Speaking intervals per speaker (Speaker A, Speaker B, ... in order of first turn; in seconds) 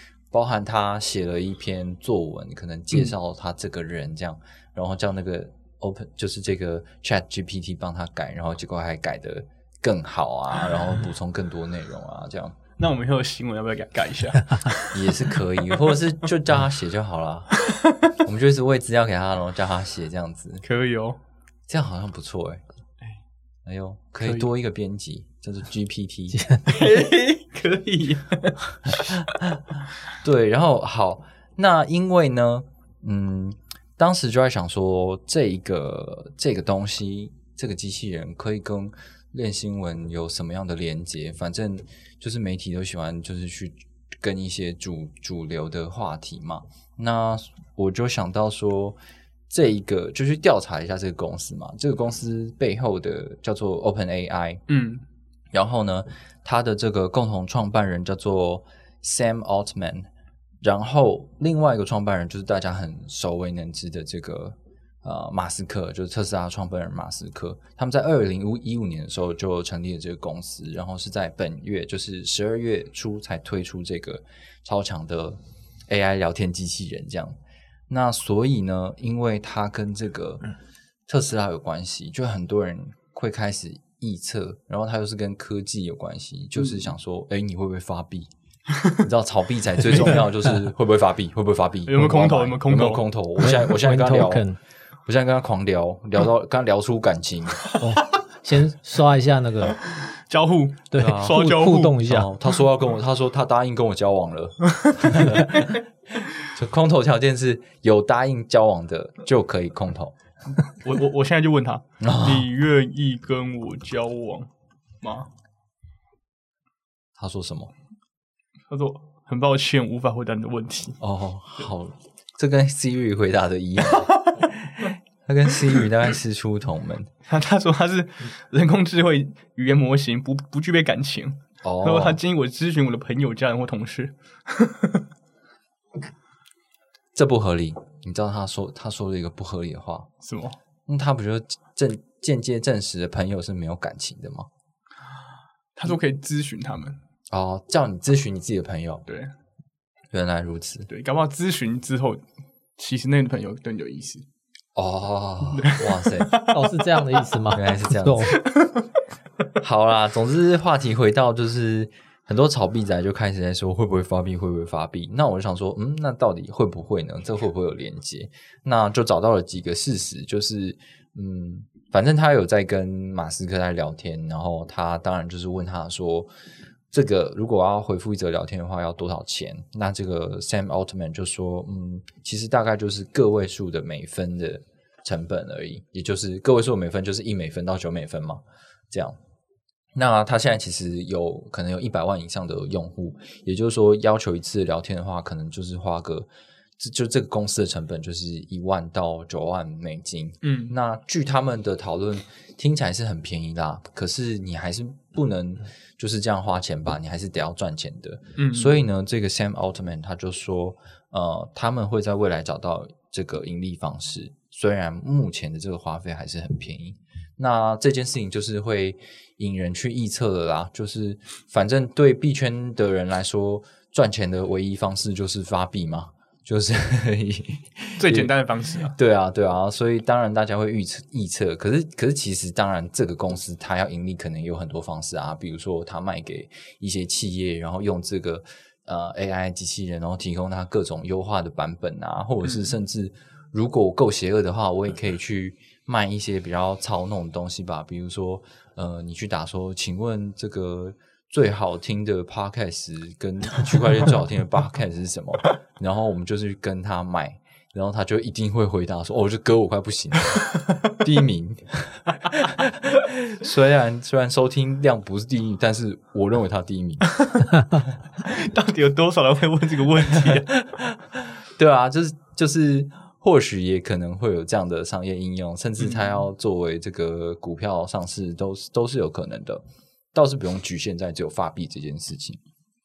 Speaker A: 0.3-12.6, 14.9-17.5, 18.2-20.6, 21.7-22.6, 23.6-26.8, 30.2-49.0, 49.5-54.6, 55.5-60.1, 60.6-77.4, 77.9-80.5, 81.1-88.3, 88.9-94.5, 95.1-97.7, 101.0-101.4, 102.0-110.2, 112.0-112.5, 117.2-117.7, 121.0-127.1, 131.6-132.2, 137.2-140.1, 140.9-144.5, 147.3-149.1, 150.1-150.9, 154.8-156.3, 157.5-158.4, 159.6-176.3, 176.9-189.2, 189.9-228.3, 228.8-267.2, 270.2-282.4
Speaker B: 12.8-15.3, 17.7-18.1, 20.6-21.2, 26.7-29.2, 54.7-55.0, 91.9-93.0, 99.9-102.0, 110.6-114.5, 115.0-115.3, 118.7-121.0, 127.3-135.1, 140.2-140.6, 145.8-147.0, 149.1-149.3, 150.9-152.2, 152.8-154.2, 155.5-156.7, 158.3-158.9, 200.4-200.7, 208.4-208.8, 228.0-229.0, 267.1-267.5, 268.2-270.6, 275.8-276.2
Speaker C: 26.3-26.6, 93.4-94.6, 97.8-99.8, 100.9-102.3, 156.5-158.4